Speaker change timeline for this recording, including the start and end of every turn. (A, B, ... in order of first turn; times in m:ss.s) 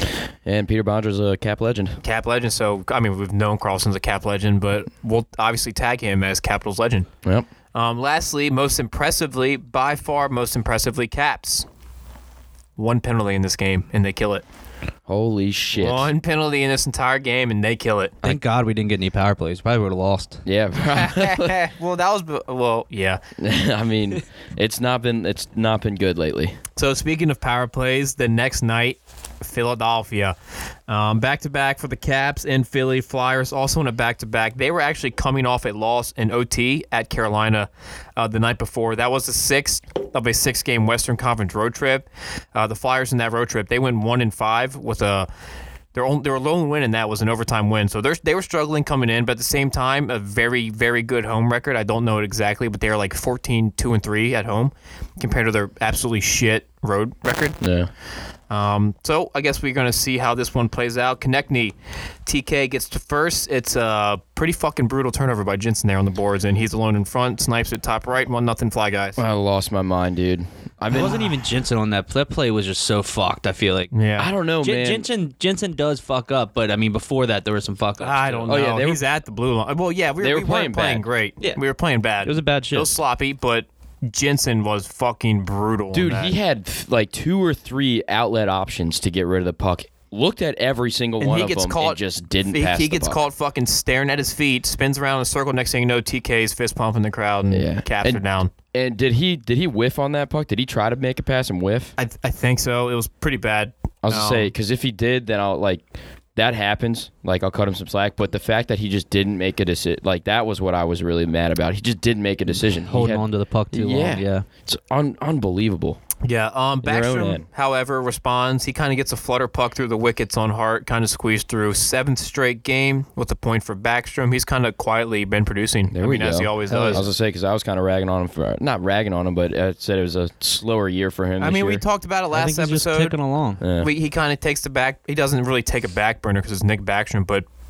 0:00.4-0:02.0 A
0:02.0-0:07.1 B
0:07.7-0:11.7 B
0:12.8-0:14.4 B
0:15.1-0:16.1 A
0:15.8-0:18.2 B
0:18.2-0:20.4 C
0:20.5-0:21.6 A
0:20.9-0:23.2 B
0:23.4-0:26.6 A
0:26.8-0:30.4 B
0:30.9-0:45.3 B
0:45.9-0:57.6 B
0:57.6-0:57.9 A
0:58.5-1:09.2 B
1:09.2-1:11.3 A
1:10.9-1:13.9 C
1:13.9-1:14.3 B
1:14.2-1:15.1 A
1:14.6-1:18.5 C
1:18.0-1:26.3 B
1:18.5-1:19.0 A
1:20.2-1:21.0 A
1:22.2-1:22.9 C
1:25.9-1:33.2 A
1:31.2-1:38.5 B
1:37.5-1:41.9 A
1:42.0-1:44.5 B
1:44.0-1:45.8 A
1:46.4-1:56.0 A
1:52.5-1:54.5 C
1:56.2-2:07.0 B
1:56.8-1:57.5 A
2:05.9-2:11.8 A
2:06.7-2:07.0 C
2:11.4-2:13.2 B
2:12.3-2:13.6 C
2:13.6-2:13.9 A
2:13.8-2:17.4 B